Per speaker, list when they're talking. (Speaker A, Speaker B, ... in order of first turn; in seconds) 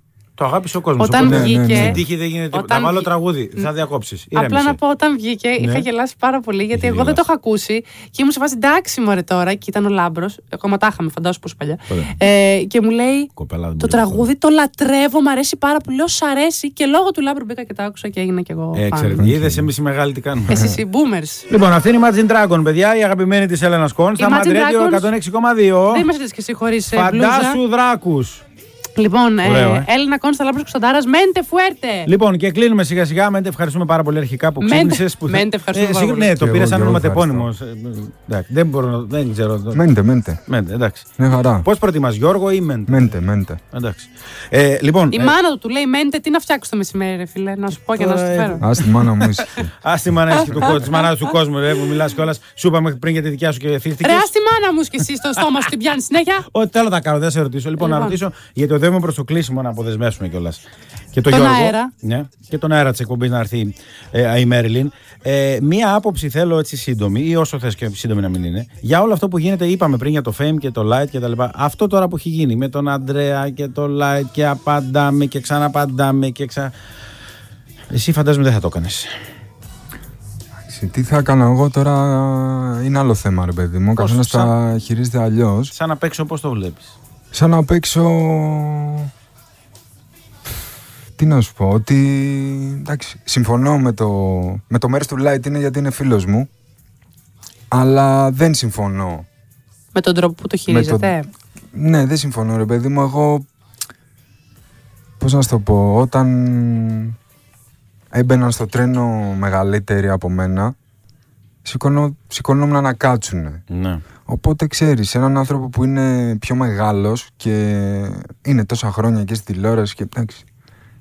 Speaker A: 0.4-4.8, 5.6-5.9, 6.7-7.2, 13.4-14.3, 18.7-20.6, 21.5-26.1, 26.9-28.4, 29.4-29.9, 32.1-39.8, 40.5-43.1, 43.7-45.3, 48.0-54.3, 56.5-60.6, 61.1-76.7, 77.9-79.1, 84.0-84.5, 85.7-86.9, 113.7-114.0
Speaker B: 1.0-3.7, 4.3-19.2, 20.5-21.5, 24.2-25.1, 25.9-27.6, 29.0-32.1, 34.6-36.4, 45.1-48.6, 54.0-56.5, 57.8-58.2, 61.3-61.9, 99.9-101.3
Speaker C: 1.2-2.0, 19.2-19.7, 20.5-20.8, 36.4-37.5, 39.7-40.4, 41.2-41.7, 42.9-43.6, 48.6-49.7, 50.4-50.8, 80.6-85.7, 87.3-89.1, 91.2-96.5, 97.7-99.3, 100.7-101.1, 101.7-103.5, 105.2-107.2, 108.1-110.8, 111.6-113.6, 114.3-120.5